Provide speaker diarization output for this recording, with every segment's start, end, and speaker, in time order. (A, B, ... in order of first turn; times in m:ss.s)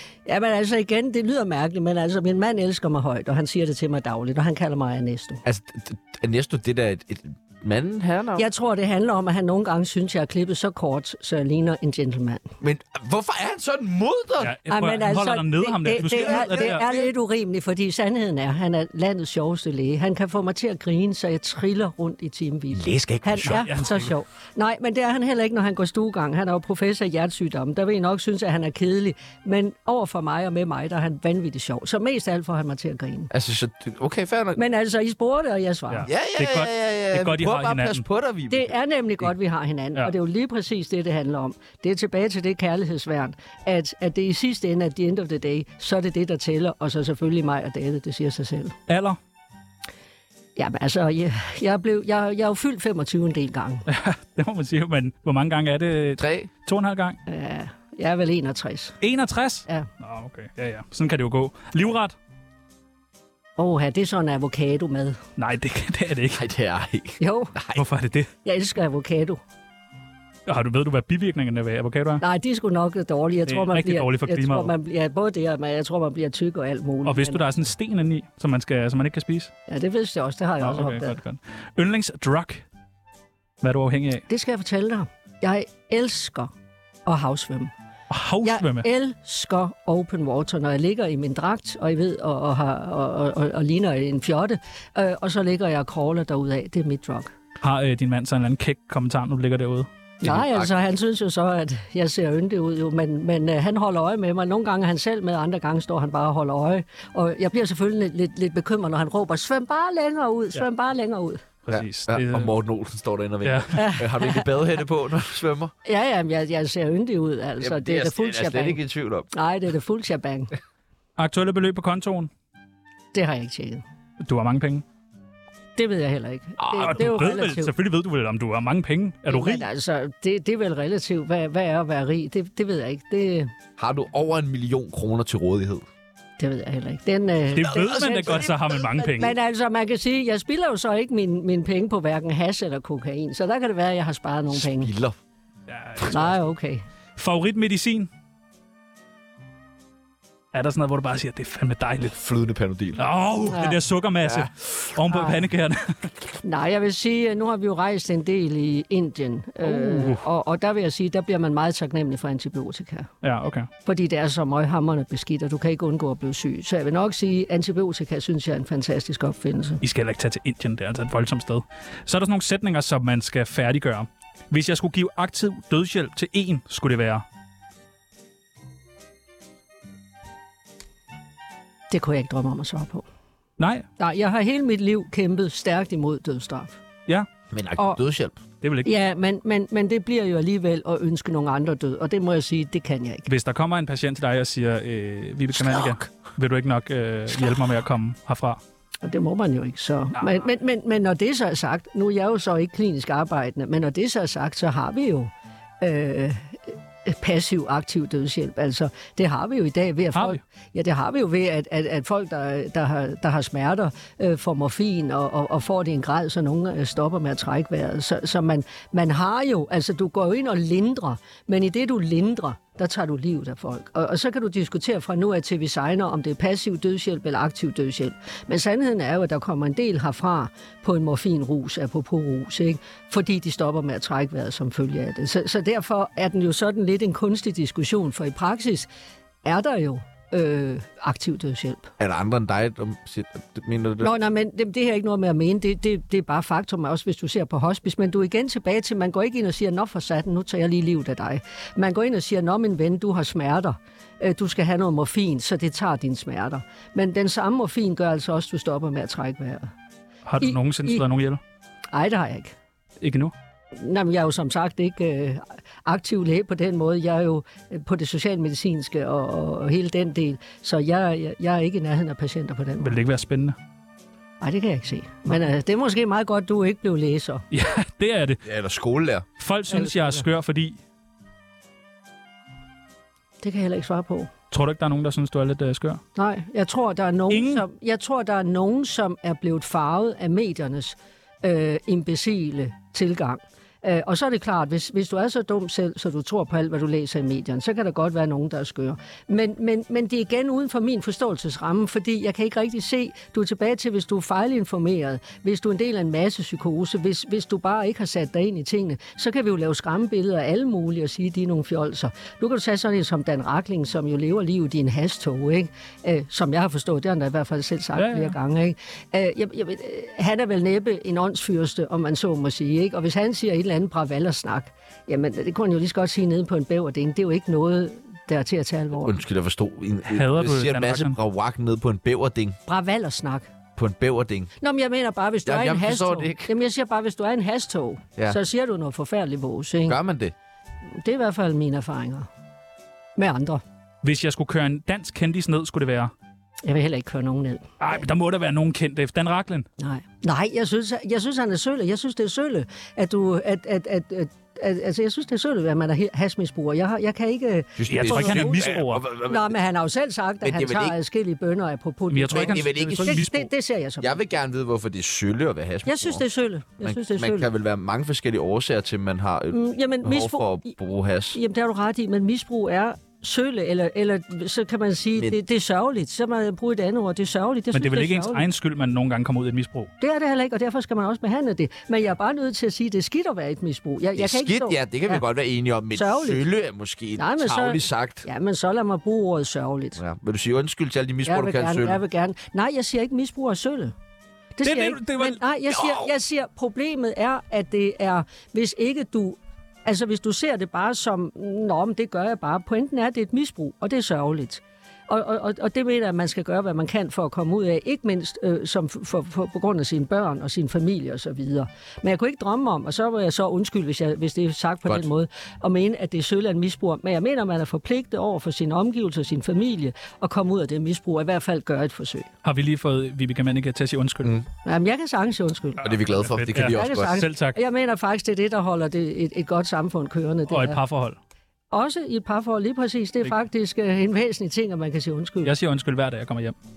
0:00.3-0:05.4 A
0:05.4-0:08.4 B
0:08.4-0:12.4 A
0:12.6-0:14.5 B
0:14.4-0:16.8 C
0:14.7-0:33.3 A
0:16.0-0:17.1 B
0:22.7-0:23.9 B
0:23.5-0:24.0 C
0:33.3-0:34.6 B
0:34.6-0:36.1 A
0:35.9-0:38.0 C
0:36.1-0:38.8 B
0:38.5-0:48.8 A
0:48.9-0:49.2 C
0:50.6-0:53.8 A
0:53.9-0:57.2 C
0:56.2-0:56.5 B
0:57.3-0:59.0 A
0:59.0-1:02.2 C
1:03.6-1:05.2 A
1:05.4-1:06.4 C
1:06.3-1:07.8 B
1:07.2-1:07.5 A
1:07.8-1:08.3 C
1:08.4-1:09.4 A
1:10.5-1:12.2 C
1:12.2-1:17.4 A
1:13.5-1:14.7 C
1:17.0-1:19.5 C
1:19.7-1:21.2 A
1:20.6-1:22.6 C
1:23.6-1:24.2 C
1:24.3-1:26.5 A
1:27.1-1:27.7 A
1:28.1-1:28.9 C
1:28.4-1:37.3 A
1:37.6-1:39.9 C
1:40.2-1:51.4 A
1:40.2-1:40.7 B
1:51.7-1:52.5 C
1:51.7-1:55.7 B
1:53.4-1:53.8 C
1:53.7-1:54.5 A
1:55.8-1:58.8 A
1:57.6-1:59.3 B
1:59.3-2:00.5 A
2:01.2-2:02.3 C
2:03.1-2:03.8 A
2:04.2-2:04.8 C
2:05.8-2:07.7 A
2:06.6-2:07.1 B
2:06.8-2:09.6 C
2:09.3-2:13.5 A
2:13.8-2:15.8 B
2:16.4-2:24.9 A
2:17.5-2:19.3 C
2:17.6-2:18.8 B
2:24.5-2:25.2 B
2:25.7-2:26.4 C
2:26.1-2:26.8 A
2:27.2-2:28.1 C
2:30.5-2:32.2 C
2:32.1-2:33.0 B
2:33.0-2:36.1 C
2:33.5-2:33.8 A
2:34.2-2:34.5 B
2:35.1-2:35.4 A
2:36.4-2:43.1 A
2:39.6-2:40.2 C
2:43.2-2:43.7 C
2:43.8-2:49.8 A
2:49.8-2:57.2 C
3:01.9-3:03.0 A
3:03.6-3:03.9 C
3:04.0-3:06.8 A
3:07.5-3:08.4 B
3:08.6-3:08.9 C
3:08.8-3:13.3 A
3:13.3-3:18.6 C
3:19.0-3:58.9 A
3:30.2-3:30.4 C
3:59.4-4:01.9 A
4:02.0-4:04.1 B
4:04.0-4:19.7 A
4:20.3-4:21.4 C
4:20.4-4:21.0 A
4:21.9-4:22.5 A
4:23.0-4:23.3 C
4:23.8-4:32.9 A
4:32.8-4:33.6 C
4:34.4-4:37.4 A
4:37.5-4:38.4 C
4:38.4-4:39.2 B
4:39.4-4:40.8 C
4:39.7-4:40.2 A
4:43.4-4:44.3 A
4:44.5-4:46.0 C
4:46.2-5:29.1 A
4:47.3-4:47.6 C
5:18.0-5:18.3 C
5:29.0-5:32.6 B
5:30.1-5:31.2 C
5:32.7-5:33.4 A
5:33.8-5:34.5 B
5:34.6-5:40.0 A
5:35.5-5:36.6 B
5:39.9-5:40.3 B
5:40.9-5:42.3 A
5:43.2-5:43.6 A
5:44.0-5:46.1 C
5:46.6-5:47.7 A
5:47.8-5:49.7 C
5:49.8-6:04.2 A
5:57.8-5:59.6 B
5:57.9-5:59.0 C
6:00.4-6:01.0 B
6:02.1-6:03.5 C
6:02.3-6:03.2 B
6:04.0-6:06.2 B
6:05.9-6:07.5 A
6:06.8-6:11.4 B
6:09.5-6:10.7 A
6:11.3-6:18.4 A
6:17.7-6:19.9 C
6:20.0-6:25.2 A
6:24.2-6:28.3 B
6:25.9-6:26.4 A
6:27.2-6:30.0 A
6:30.0-6:32.0 B
6:31.2-6:33.9 A
6:34.6-7:02.3 A
6:34.6-6:35.4 C
7:02.4-7:04.3 C
7:04.6-7:06.0 A
7:05.8-7:07.2 B
7:06.3-7:07.6 C
7:06.6-7:10.8 A
7:10.5-7:11.2 C
7:11.7-7:15.5 A
7:15.4-7:16.6 C